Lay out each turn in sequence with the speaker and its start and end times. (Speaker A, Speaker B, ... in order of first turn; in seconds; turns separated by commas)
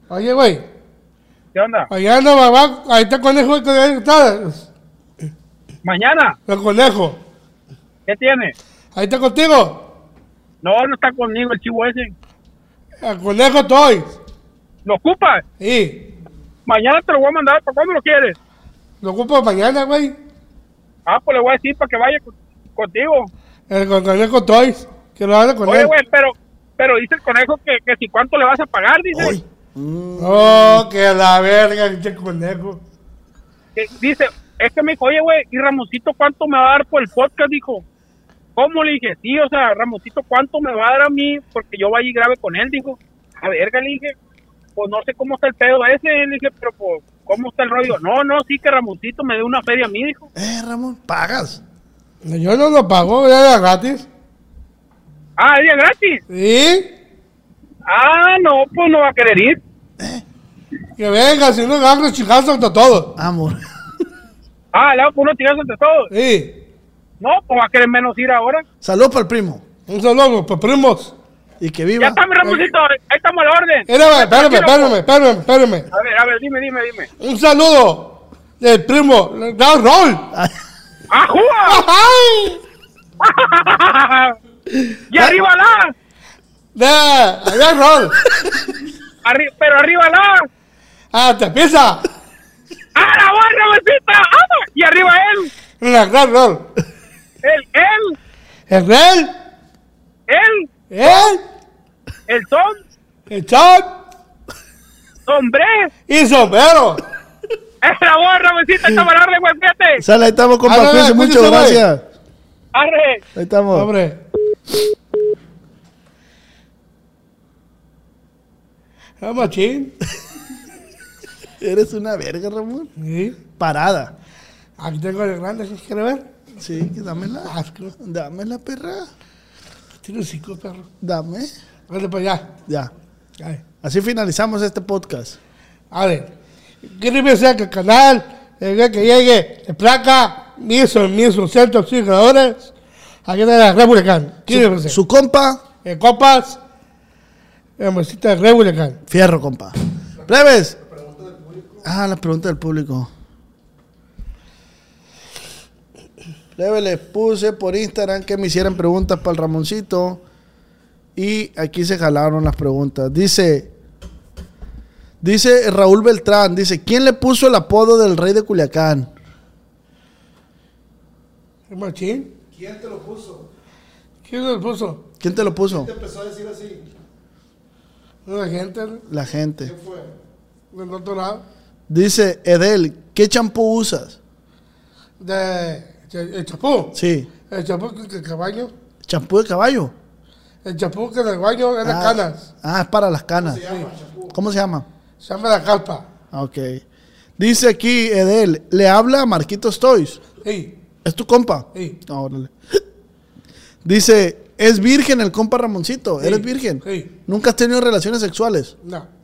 Speaker A: 0.1-0.7, Speaker B: 1.5-1.9, Speaker A: 1.9-4.7, Speaker B: 5.8-6.4, Speaker A: 6.5-7.2, Speaker B: 8.1-8.5, Speaker A: 8.9-9.9, Speaker B: 10.6-12.1, Speaker A: 13.0-14.1, Speaker B: 14.8-15.4, Speaker A: 15.6-16.1, Speaker B: 16.6-18.4, Speaker A: 19.0-20.1, Speaker B: 21.1-23.3, Speaker A: 23.7-25.9, Speaker B: 25.6-29.4, Speaker C: 29.1-30.9, Speaker A: 30.2-32.8, Speaker B: 33.8-37.8, Speaker B: 38.5-44.1, Speaker B: 44.8-50.3, Speaker C: 50.3-51.6, Speaker A: 52.2-54.0, Speaker B: 55.4-56.2, Speaker A: 56.3-56.9, Speaker B: 57.9-59.6, Speaker C: 60.0-60.2, Speaker A: 61.0-63.1, Speaker C: 63.1-63.6, Speaker B: 64.7-66.1, Speaker A: 66.1-66.6, Speaker B: 67.2-68.6, Speaker C: 68.8-69.6, Speaker A: 69.9-71.1, Speaker C: 71.6-72.2, Speaker B: 72.0-75.0, Speaker A: 73.9-75.8, Speaker B: 75.9-77.1, Speaker A: 77.2-80.3, Speaker B: 81.1-81.8, Speaker A: 81.7-82.6, Speaker B: 83.2-84.3, Speaker C: 84.9-85.3, Speaker B: 85.1-85.9, Speaker A: 86.8-88.2, Speaker B: 89.2-90.5, Speaker A: 91.1-92.0, Speaker B: 92.9-95.5, Speaker A: 95.8-96.7, Speaker B: 97.4-98.2, Speaker A: 98.7-99.3, Speaker B: 100.3-100.7, Speaker A: 100.9-101.4, Speaker B: 102.3-102.8, Speaker A: 103.3-104.0, Speaker B: 105.2-105.9, Speaker A: 106.1-107.0, Speaker B: 107.8-110.0, Speaker C: 110.0-112.0, Speaker A: 110.7-111.8, Speaker B: 112.7-113.2, Speaker C: 113.3-113.9, Speaker A: 113.7-114.2, Speaker A: 119.2-120.0, Speaker C: 121.6-122.9, Speaker A: 123.0-123.4, Speaker C: 123.6-124.1, Speaker A: 124.8-126.3, Speaker C: 126.6-129.1, Speaker A: 127.4-127.9, Speaker A: 130.0-130.9, Speaker C: 131.0-131.5, Speaker A: 131.9-132.5, Speaker C: 132.7-132.9, Speaker C: 133.8-135.4, Speaker A: 135.9-136.3, Speaker A: 136.8-142.7, Speaker A: 143.2-145.0, Speaker C: 144.5-145.6, Speaker A: 145.8-146.6, Speaker A: 147.8-149.0, Speaker C: 149.1-149.8, Speaker D: 150.2-151.9, Speaker C: 150.3-150.7, Speaker C: 151.8-153.1, Speaker C: 156.5-160.2, Speaker C: 161.2-163.7, Speaker C: 165.2-169.1, Speaker A: 171.7-172.3, Speaker D: 172.5-173.5, Speaker A: 174.2-175.0, Speaker C: 175.2-175.9, Speaker D: 175.3-176.9, Speaker A: 178.2-179.0, Speaker C: 179.1-179.7, Speaker D: 179.6-180.2, Speaker A: 180.7-181.4, Speaker C: 181.9-184.2, Speaker A: 185.2-187.0, Speaker C: 186.9-187.3, Speaker A: 187.5-188.7, Speaker C: 189.1-189.9, Speaker A: 190.6-192.5, Speaker C: 191.8-193.6, Speaker D: 193.3-194.4, Speaker C: 194.3-194.8, Speaker A: 195.2-196.0, Speaker C: 196.3-196.8, Speaker C: 197.4-200.2, Speaker A: 200.4-200.7, Speaker C: 201.0-202.8, Speaker C: 203.8-208.7, Speaker A: 206.2-207.1